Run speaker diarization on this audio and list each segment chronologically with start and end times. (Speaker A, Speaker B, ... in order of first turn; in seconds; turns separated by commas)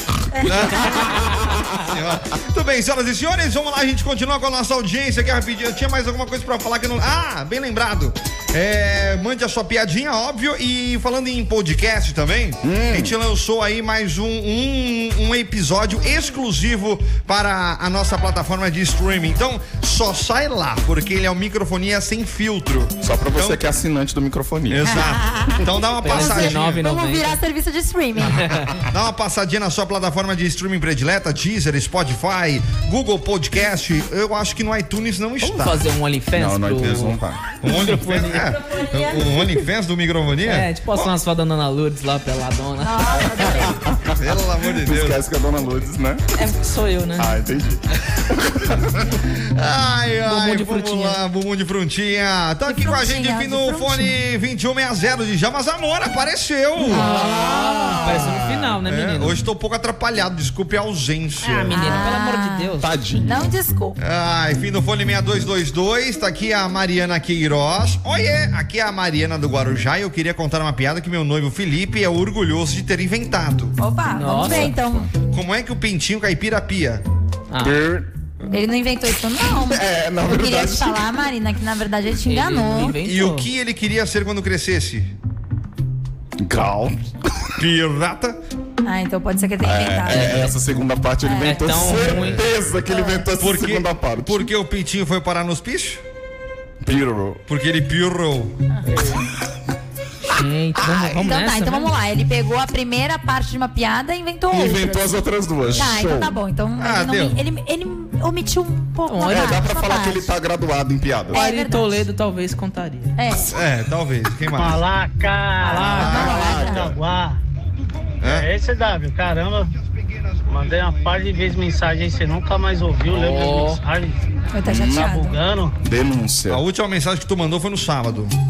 Speaker A: 0.3-0.8, Speaker B: 0.4-23.7, Speaker C: 0.9-1.6, Speaker C: 12.6-13.2, Speaker C: 23.0-25.0, Speaker B: 24.7-26.8, Speaker A: 24.8-28.5, Speaker D: 26.0-27.4, Speaker D: 28.4-28.7, Speaker B: 28.9-35.8, Speaker D: 35.4-38.5, Speaker C: 36.3-37.4, Speaker B: 37.6-41.1, Speaker A: 38.3-39.3, Speaker D: 40.4-43.5, Speaker A: 42.8-43.8, Speaker C: 43.4-46.2, Speaker B: 44.2-45.2, Speaker D: 46.4-47.3, Speaker C: 47.2-49.0, Speaker B: 49.4-57.1, Speaker D: 50.3-51.2, Speaker A: 52.6-54.1, Speaker C: 56.9-58.7, Speaker A: 56.9-57.9, Speaker D: 57.0-59.4, Speaker B: 58.8-61.8, Speaker D: 61.4-62.9, Speaker A: 61.7-62.7, Speaker C: 62.8-63.5, Speaker A: 63.2-64.0, Speaker B: 64.0-73.7, Speaker A: 73.8-75.1, Speaker D: 74.2-74.7, Speaker C: 74.4-75.1, Speaker B: 75.2-77.0, Speaker D: 77.5-77.8, Speaker C: 77.6-78.1, Speaker A: 78.5-82.9, Speaker C: 79.5-81.0, Speaker D: 82.2-83.5, Speaker B: 83.0-85.1, Speaker C: 86.4-87.5, Speaker B: 87.6-88.4, Speaker A: 88.8-90.5, Speaker C: 89.6-94.5, Speaker A: 91.2-92.0, Speaker D: 91.4-92.4, Speaker A: 92.9-93.2, Speaker B: 93.4-96.0, Speaker C: 96.8-97.4, Speaker B: 97.5-98.5, Speaker D: 98.9-99.2, Speaker D: 100.3-101.9, Speaker C: 100.8-101.1, Speaker A: 101.2-105.0, Speaker C: 104.5-106.3, Speaker A: 105.8-110.3, Speaker B: 106.8-107.4, Speaker D: 109.1-109.6, Speaker C: 109.3-111.4, Speaker A: 111.3-112.0, Speaker D: 111.3-113.1, Speaker A: 113.2-113.5, Speaker B: 113.5-114.8, Speaker E: 114.5-117.4, Speaker D: 115.6-116.3, Speaker A: 115.7-116.9, Speaker B: 116.0-116.8, Speaker C: 116.2-116.9, Speaker B: 118.2-118.5, Speaker E: 118.2-119.7, Speaker E: 120.5-124.2, Speaker D: 123.1-123.8, Speaker A: 124.5-125.4, Speaker C: 124.7-125.1, Speaker E: 124.9-125.8, Speaker C: 125.8-126.6, Speaker B: 126.5-128.3